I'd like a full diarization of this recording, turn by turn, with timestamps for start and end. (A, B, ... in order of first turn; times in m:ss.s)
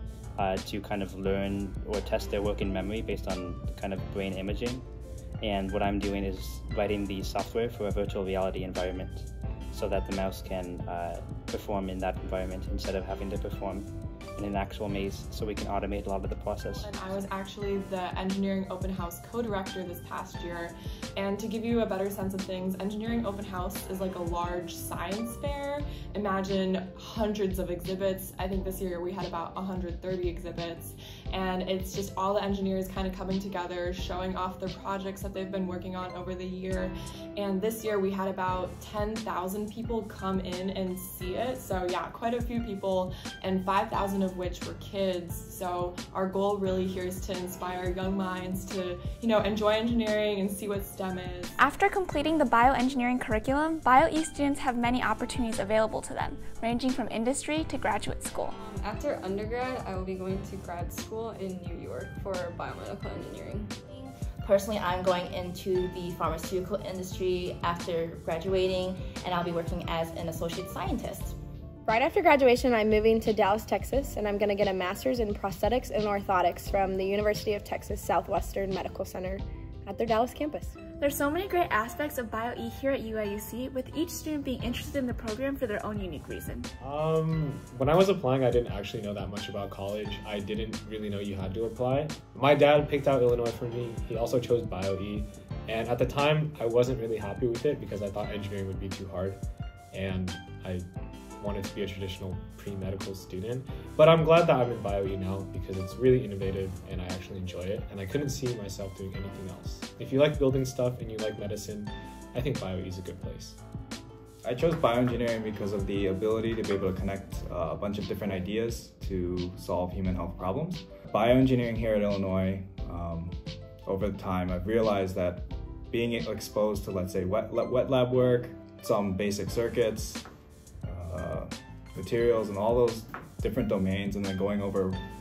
0:00.4-0:04.9 A
0:05.4-0:17.3 A
0:16.8-0:51.6 B
0:51.6-0:58.5 C
0:58.6-1:03.7 D
1:03.9-1:11.3 E
1:11.9-1:20.7 F
1:21.0-1:26.7 C
1:26.8-1:39.4 G
1:39.9-1:53.6 G
1:54.4-2:10.2 H
2:10.8-2:15.0 H